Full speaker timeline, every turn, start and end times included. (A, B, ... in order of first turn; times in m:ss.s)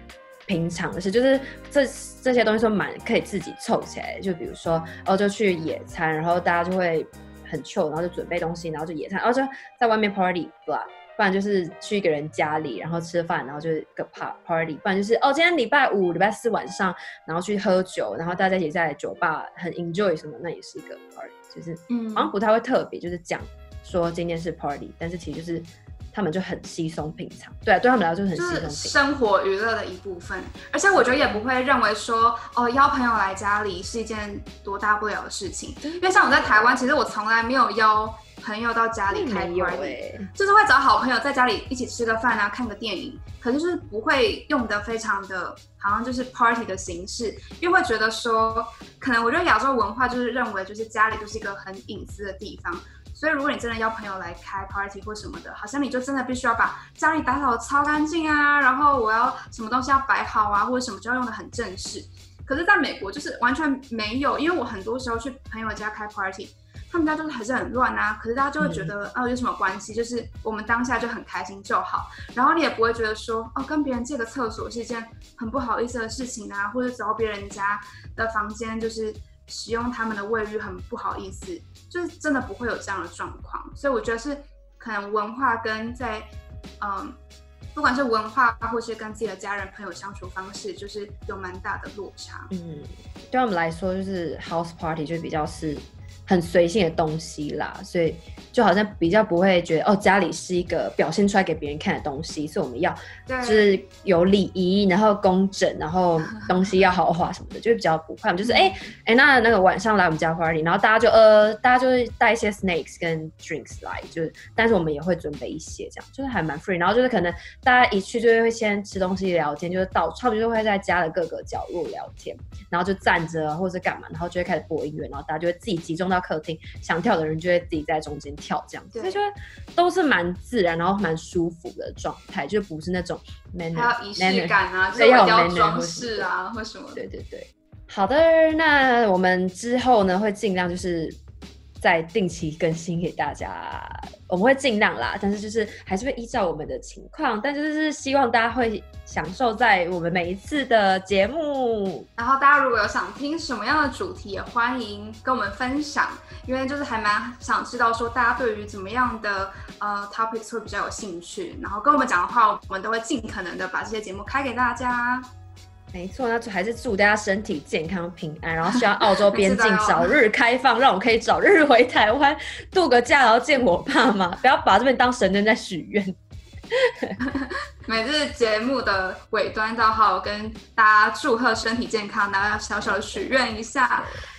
0:00.5-0:29.0 A
0:21.9-0:22.3 B
0:28.4-1:26.3 B
0:31.0-0:31.4 A
0:35.8-0:36.8 A
0:39.1-0:40.3 A
1:08.6-1:08.9 A
1:26.8-1:27.2 B
1:27.8-1:32.5 B
1:32.5-2:16.3 A
1:43.3-1:43.8 B
1:48.4-1:48.8 B
2:08.9-2:09.2 B
2:13.7-2:17.0 B
2:17.0-2:21.2 A
2:21.8-2:32.1 A
2:32.2-2:45.3 B
2:45.9-2:56.2 A
2:49.1-2:50.1 B
2:56.7-2:57.2 A
2:57.2-3:04.2 B
3:02.8-3:04.2 A